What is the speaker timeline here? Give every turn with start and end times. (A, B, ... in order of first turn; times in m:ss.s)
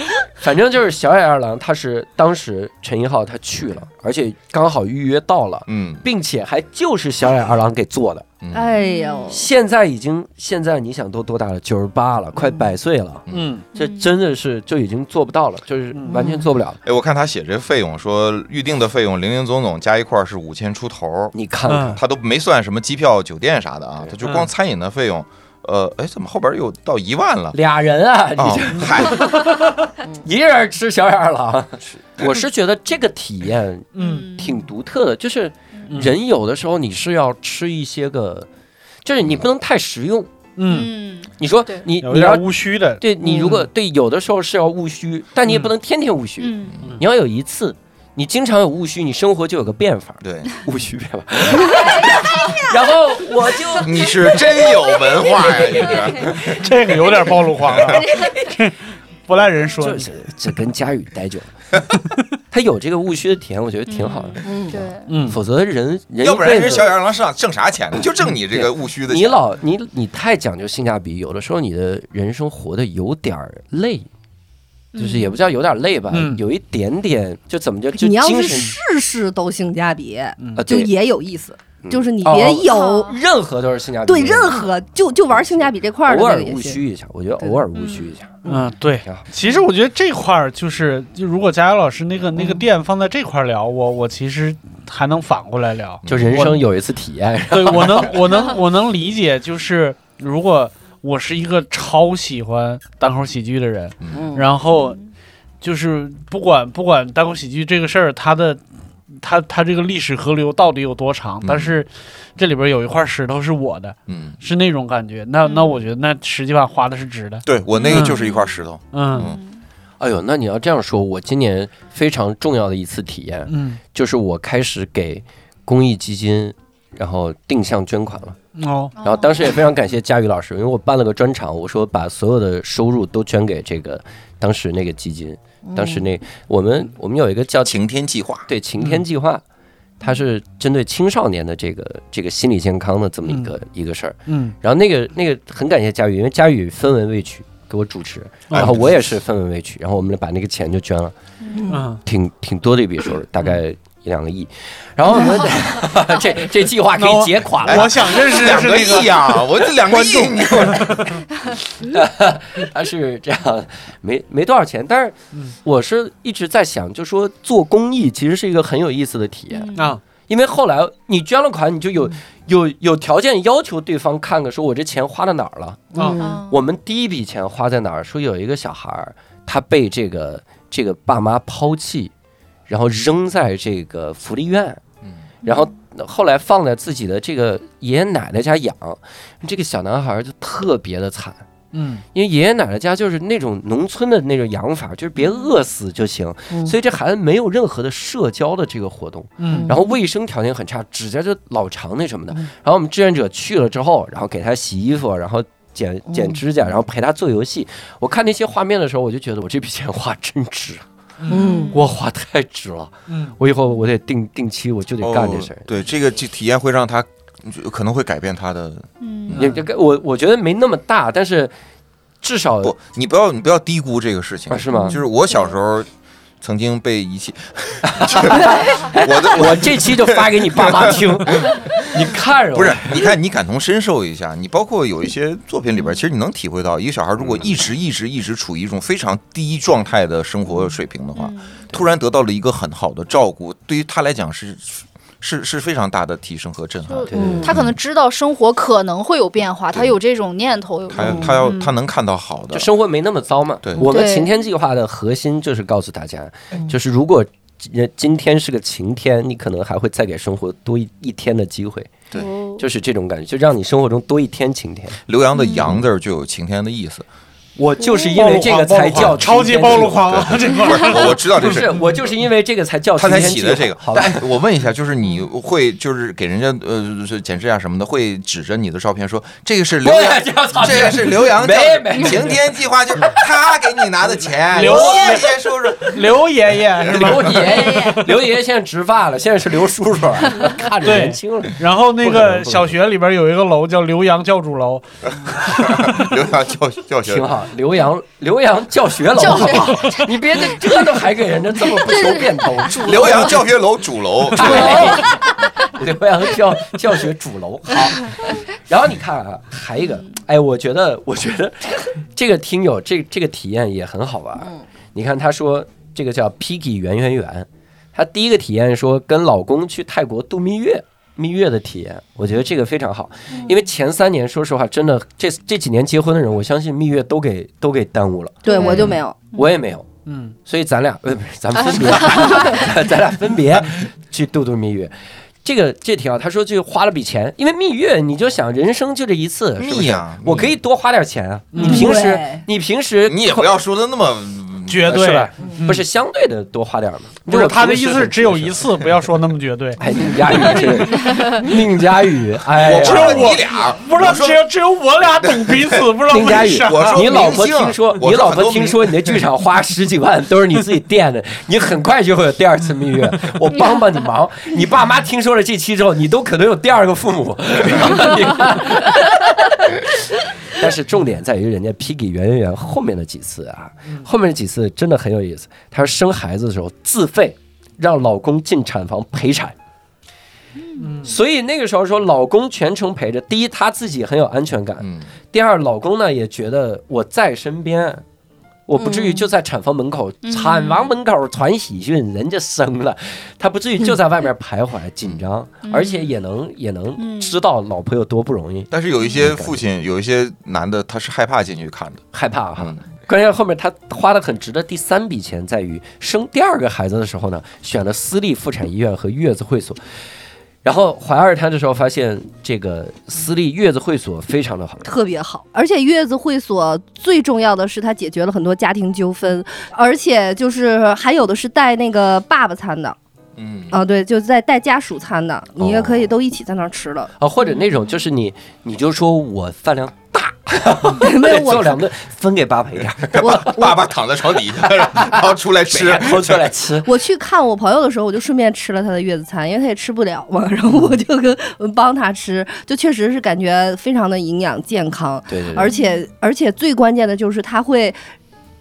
0:00.4-0:08.3 A
0:05.7-0:06.0 B
0:08.4-0:08.7 B
0:08.5-0:09.4 C
0:08.8-0:09.4 D
0:09.3-0:16.8 A
0:13.3-0:13.6 E
0:13.7-0:14.1 D
0:15.9-0:16.2 E
0:16.1-0:16.4 C
0:16.8-0:21.3 B
0:21.3-0:22.0 A
0:21.7-0:22.0 E
0:21.9-0:27.6 B
0:24.2-0:24.5 E
0:27.5-0:38.5 A
0:28.4-0:29.4 B
0:34.0-0:34.3 E
0:34.0-0:34.6 D
0:35.9-0:36.2 E
0:39.0-0:40.4 A
0:40.6-0:40.9 E
0:40.7-0:41.9 D
0:41.4-0:56.6 A
0:42.0-0:43.6 E
0:43.2-0:43.5 C
0:46.4-0:46.8 D
0:50.2-0:50.6 B
0:53.8-0:56.6 B
0:56.5-1:00.1 E
0:57.6-0:58.0 B
0:58.0-0:58.7 A
0:58.0-0:58.4 D
0:59.7-1:01.5 A
1:02.5-1:07.0 A
1:03.9-1:05.1 D
1:04.4-1:04.8 C
1:05.1-1:05.4 E
1:06.2-1:09.4 B
1:08.0-1:14.1 A
1:14.9-1:15.4 D
1:15.0-1:18.8 A
1:16.1-1:16.4 E
1:17.9-1:23.1 C
1:20.4-1:20.8 E
1:20.6-1:20.9 A
1:21.8-1:24.7 A
1:22.5-1:23.2 D
1:24.1-1:26.8 C
1:25.3-1:28.5 A
1:27.7-1:28.1 D
1:28.4-1:28.7 C
1:28.5-1:36.6 E
1:36.0-1:36.5 B
1:36.1-1:38.3 A
1:37.5-1:45.0 E
1:44.0-1:44.3 B
1:44.1-1:44.5 C
1:44.7-1:45.0 D
1:45.6-1:58.2 E
1:51.4-1:51.8 B
1:54.1-1:54.4 B
1:55.4-1:55.9 D
1:57.4-1:59.4 B
1:57.8-1:58.6 D
1:58.9-1:59.3 E
1:59.1-1:59.6 D
2:00.0-2:08.4 A
2:03.5-2:03.8 E
2:08.6-2:08.9 E
2:09.0-2:09.5 D
2:09.0-2:17.8 A
2:15.7-2:16.0 C
2:17.6-2:18.5 B
2:18.5-2:19.4 A
2:18.8-2:19.0 E
2:20.0-2:31.1 A
2:24.3-2:24.6 E
2:28.5-2:28.8 B
2:31.7-2:32.0 E
2:32.0-2:38.7 A
2:37.0-2:41.2 E
2:37.6-2:41.2 B
2:39.9-2:40.9 A
2:41.5-3:02.1 A
2:49.5-2:49.9 D
2:49.8-2:50.0 E
2:55.9-2:56.3 C
2:56.0-2:56.2 E
2:56.2-2:56.6 D
3:02.7-3:04.8 A
3:05.4-3:11.4 A
3:05.4-3:05.7 D
3:11.7-3:12.0 E
3:12.1-3:30.9 A
3:19.4-3:19.7 E
3:31.2-3:31.6 E
3:31.3-3:31.8 C
3:31.3-3:31.9 D
3:31.7-3:35.7 A
3:33.1-3:33.4 E
3:35.0-3:39.5 B
3:39.0-3:39.4 D
3:39.3-3:41.5 A
3:42.2-3:42.8 A
3:42.6-3:45.9 B
3:44.5-3:45.0 A
3:46.4-4:07.8 B
3:47.8-3:53.2 A
3:57.2-3:57.5 A
4:01.2-4:01.6 D
4:06.9-4:11.7 D
4:07.1-4:07.6 A
4:07.2-4:07.5 C
4:10.9-4:12.7 B
4:11.0-4:11.3 C
4:12.5-4:21.9 A
4:13.8-4:14.3 D
4:22.2-4:22.6 D
4:22.6-4:25.0 A
4:25.1-4:27.1 B
4:25.4-4:25.8 D
4:27.6-4:30.4 A
4:27.8-4:28.2 D
4:28.1-4:31.4 E
4:28.9-4:31.8 B
4:31.1-4:34.3 A
4:33.0-4:46.1 B
4:39.8-4:43.1 A
4:44.5-4:48.1 E
4:44.5-4:45.4 A
4:46.8-4:47.7 B
4:46.8-4:52.8 A
4:50.8-4:54.8 E
4:55.3-4:57.4 B
4:57.0-5:03.5 A
4:59.2-5:01.0 D
5:01.7-5:03.4 D
5:02.8-5:05.1 B
5:04.3-5:29.9 A
5:04.4-5:05.2 D
5:28.4-5:29.2 C
5:28.5-5:29.5 D
5:30.1-5:30.4 E
5:30.4-5:43.5 A
5:39.6-5:40.5 B
5:41.5-5:42.0 E
5:41.6-5:42.4 C
5:43.1-5:45.0 B
5:44.7-5:45.8 E
5:44.9-5:48.7 A
5:47.3-5:51.3 E
5:49.8-5:53.4 A
5:52.6-5:54.4 B
5:52.7-5:57.1 E
5:55.2-5:59.2 B
5:56.1-6:19.6 A
6:20.6-6:20.9 D
6:20.8-6:21.2 E
6:21.0-6:28.0 A
6:24.8-6:25.1 B
6:28.7-6:39.6 A
6:28.8-6:29.2 C
6:30.2-6:30.9 D
6:35.6-6:36.1 D
6:37.0-6:37.4 D
6:38.7-6:42.0 B
6:42.1-6:49.8 A
6:42.6-6:42.8 B
6:50.6-6:54.9 A
6:54.8-7:03.0 C
7:03.4-7:03.8 B
7:03.7-7:07.1 C
7:05.6-7:05.9 A
7:07.2-7:16.9 A
7:11.0-7:11.9 C
7:13.0-7:16.5 B
7:13.2-7:13.8 C
7:16.8-7:28.0 C
7:25.3-7:25.7 A
7:25.7-7:26.0 D